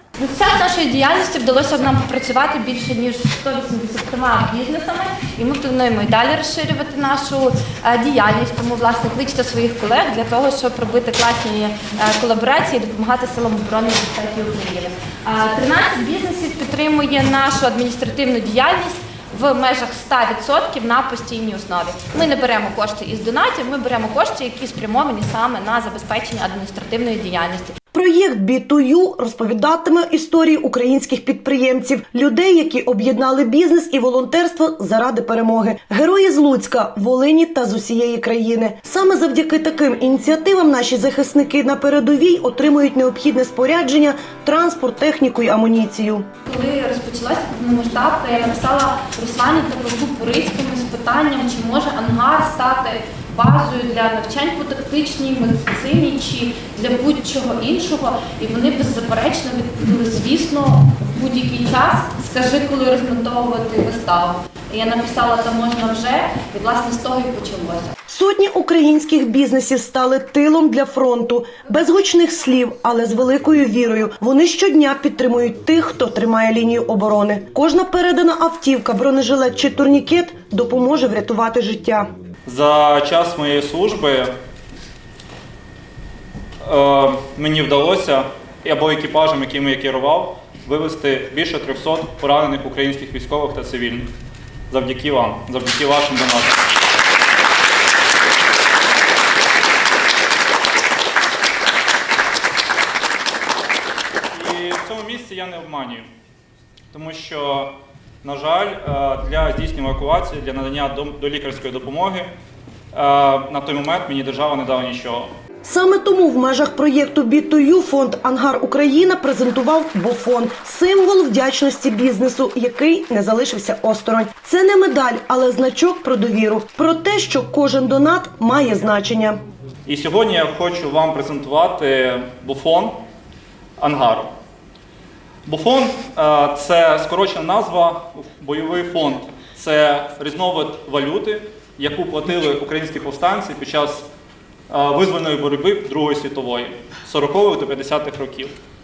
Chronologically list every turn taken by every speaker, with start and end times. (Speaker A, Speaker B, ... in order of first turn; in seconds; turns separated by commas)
Speaker A: 0.2-27.8, Speaker B: 27.9-46.3, Speaker A: 46.5-67.9, Speaker B: 68.1-82.1, Speaker C: 82.5-84.3, Speaker C: 86.7-94.1, Speaker C: 94.7-96.6, Speaker C: 104.3-106.1, Speaker C: 106.9-107.7, Speaker C: 108.2-112.3, Speaker C: 112.9-115.3, Speaker B: 115.6-129.4, Speaker C: 129.9-133.0, Speaker C: 133.8-134.3, Speaker C: 135.5-144.1, Speaker C: 144.7-148.5